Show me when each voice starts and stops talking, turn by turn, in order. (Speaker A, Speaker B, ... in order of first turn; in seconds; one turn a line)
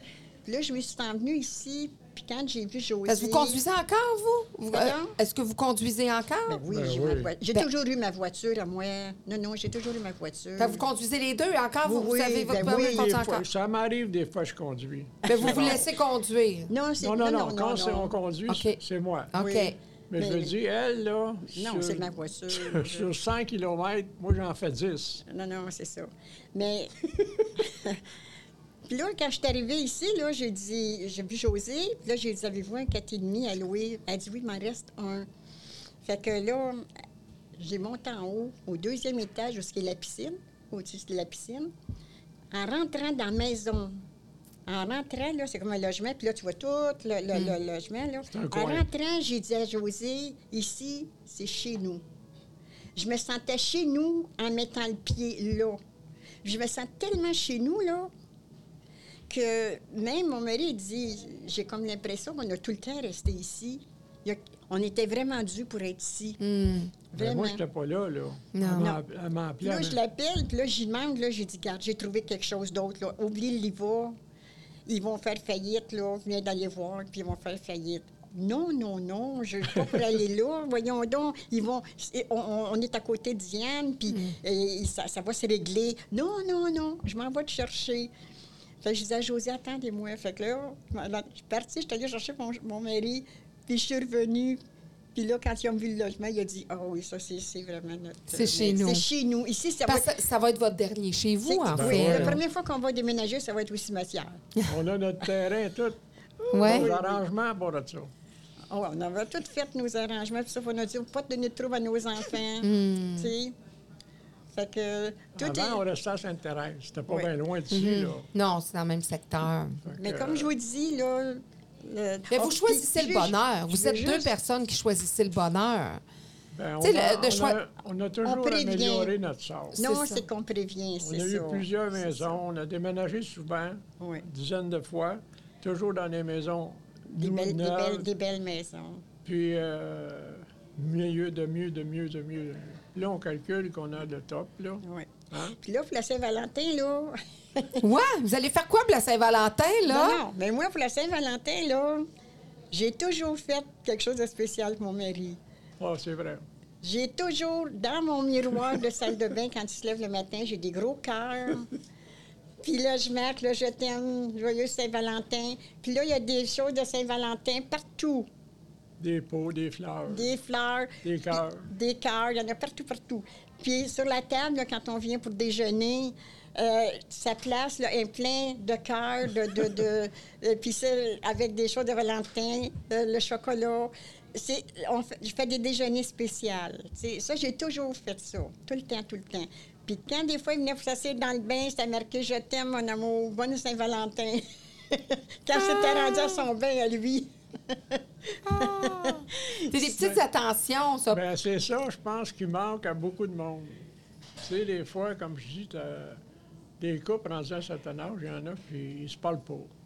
Speaker A: 0.5-3.6
Speaker B: 3.1-6.6
Speaker A: 4.7-5.2
Speaker A: 6.5-10.8
Speaker C: 6.7-7.3
Speaker B: 10.6-13.4
Speaker A: 11.8-13.2
Speaker C: 12.7-15.8
Speaker B: 15.2-16.7
Speaker A: 15.3-15.8
Speaker A: 16.7-18.1
Speaker C: 17.0-19.3
Speaker B: 18.5-18.8
Speaker B: 19.3-19.7
Speaker A: 19.3-20.5
Speaker C: 20.1-25.2
Speaker A: 21.5-23.1
Speaker A: 25.2-28.0
Speaker A: 28.9-35.2
Speaker A: 36.0-36.9
Speaker A: 37.6-41.7
Speaker A: 42.5-44.0
Speaker A: 44.6-52.0
Speaker C: 48.3-48.9
Speaker A: 53.0-55.8
Speaker A: 56.4-58.1
Speaker A: 59.3-66.4
Speaker B: 66.4-66.9
Speaker A: 67.1-67.6
Speaker C: 67.2-70.0
Speaker B: 68.5-68.9
Speaker A: 68.8-69.0
Speaker A: 69.6-74.2
Speaker A: 74.8-88.1
Speaker B: 84.1-84.3
Speaker A: 88.8-94.6
Speaker A: 95.1-100.1
Speaker B: 98.3-99.0
Speaker B: 99.8-102.4
Speaker A: 101.4-104.5
Speaker C: 101.7-102.4
Speaker C: 104.7-106.0
Speaker A: 106.4-107.2
Speaker B: 106.5-106.9
Speaker C: 106.6-108.1
Speaker A: 108.7-113.5
Speaker B: 112.6-113.3
Speaker A: 114.5-115.8
Speaker C: 115.4-118.3
Speaker B: 117.7-119.8
Speaker C: 119.8-120.5
Speaker A: 120.0-124.3
Speaker B: 122.3-126.0
Speaker C: 126.5-129.8
Speaker B: 126.8-127.6
Speaker A: 128.2-129.1
Speaker B: 129.7-130.2
Speaker A: 129.8-132.2
Speaker C: 131.0-138.1
Speaker A: 134.0-134.2
Speaker A: 137.1-139.0
Speaker C: 139.2-145.6
Speaker A: 144.8-147.8
Speaker B: 147.8-150.2
Speaker A: 149.9-152.1
Speaker A: 152.7-155.4
Speaker C: 155.8-156.4
Speaker A: 156.8-161.7
Speaker A: 162.6-168.3
Speaker C: 169.0-170.3
Speaker A: 170.1-171.0
Speaker C: 171.0-171.7
Speaker A: 171.7-199.6
Speaker B: 195.5-196.4
Speaker B: 198.4-201.2
Speaker C: 201.1-203.8
Speaker C: 204.4-206.2
Speaker C: 206.8-209.7